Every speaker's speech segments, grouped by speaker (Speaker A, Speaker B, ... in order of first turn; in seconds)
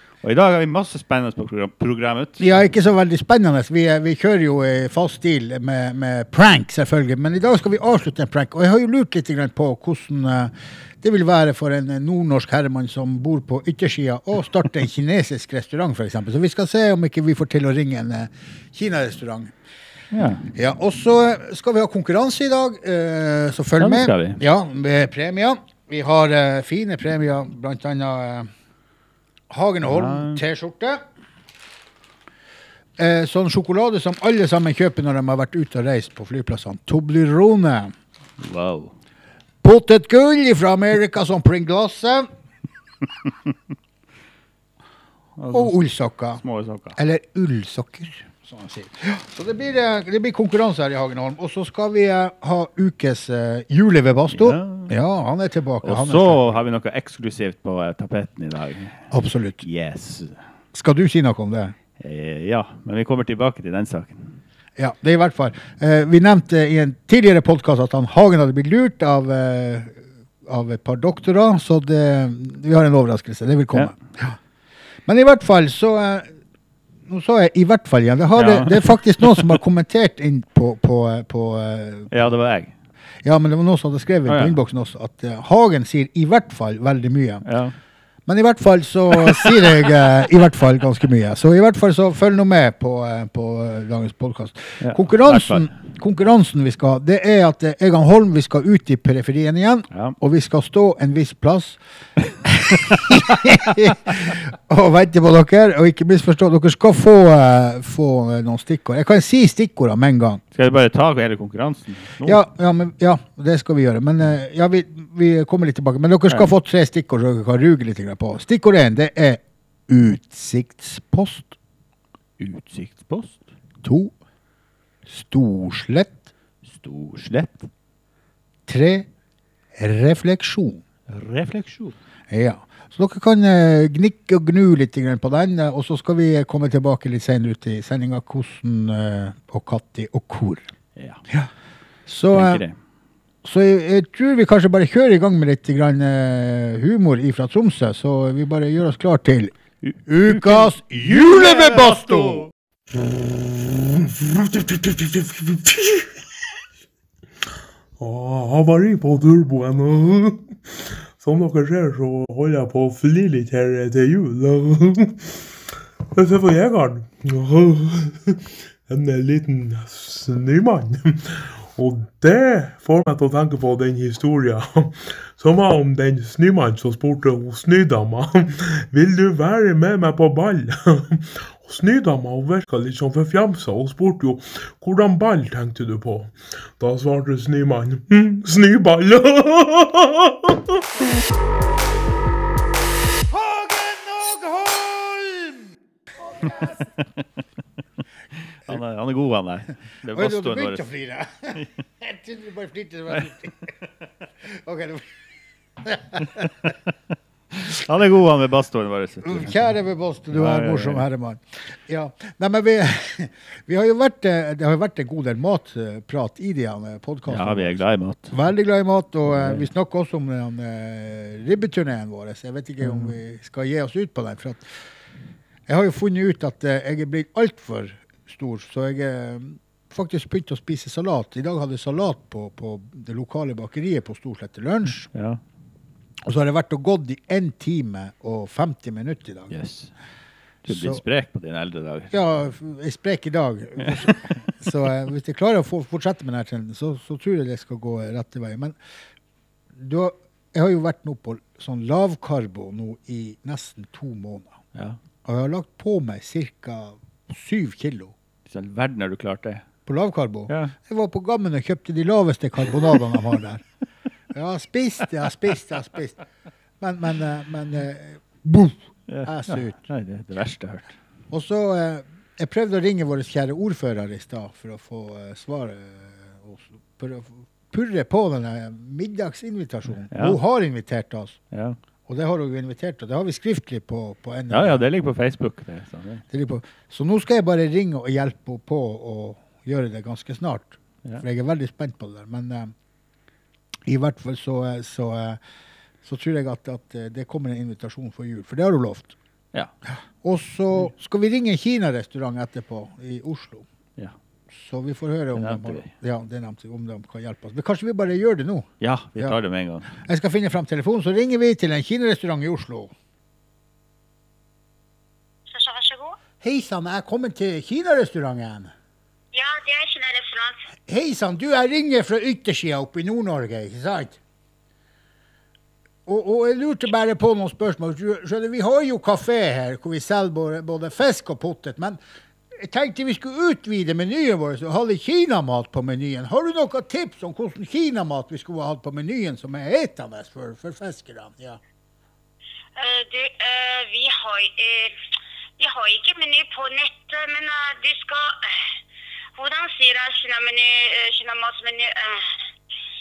Speaker A: 0.2-2.5, 20.1-20.5, 23.8-24.4, 29.8-30.4, 38.4-38.9, 45.4-45.8, 46.4-47.0, 54.3-54.9, 55.8-59.1, 59.6-60.4, 62.0-64.3, 78.3-79.6, 82.1-82.7, 84.3-84.6, 87.4-87.7, 94.8-95.7, 99.9-100.2, 110.5-112.4, 122.4-123.4, 126.6-127.7, 131.1-132.0, 140.9-141.2, 142.3-142.8, 149.8-152.5, 198.6-200.8, 207.6-209.5, 210.3-211.0, 217.3-218.3, 219.3-219.7, 222.8-223.1, 235.1-235.4, 239.5-239.9, 240.6-242.1, 258.5-259.6, 260.5-260.7, 269.1-270.9, 280.1-280.4, 281.5-281.8, 284.5-286.2, 305.3-305.9, 308.8-309.9
Speaker B: 2.4-19.5, 20.5-28.5, 29.5-31.0, 33.0-37.9, 39.6-42.3, 45.5-46.4, 47.0-56.6, 59.1-59.6, 60.7-61.7, 64.8-74.3, 75.0-76.2, 77.1-82.1, 83.2-87.4, 88.2-101.8, 102.4-110.4, 112.2-121.5, 123.8-124.1, 125.1-126.2, 128.7-129.1, 129.7-130.8, 132.3-140.7, 142.1-142.6, 143.4-149.5, 150.1-152.5, 193.3-196.8, 200.1-203.8, 204.5-205.0, 205.8-206.5, 209.2-217.8, 218.3-224.6, 225.7-235.1, 236.2-239.5, 240.7-241.0, 242.1-248.8, 249.8-254.6, 255.2-258.1, 259.9-263.6, 264.3-266.2, 266.8-269.8, 271.3-281.4, 282.1-284.8, 286.3-292.7, 293.9-295.4, 296.0-299.1, 300.2-303.6, 304.5-309.4, 310.0-312.9, 316.4-318.7, 320.9-324.2, 326.1-332.0, 332.5-341.6
Speaker C: 153.1-156.1, 158.0-160.4, 161.2-165.4, 166.1-190.8
Speaker D: 315.5-316.2, 319.3-320.6, 342.8-344.9, 345.6-348.7, 349.4-352.3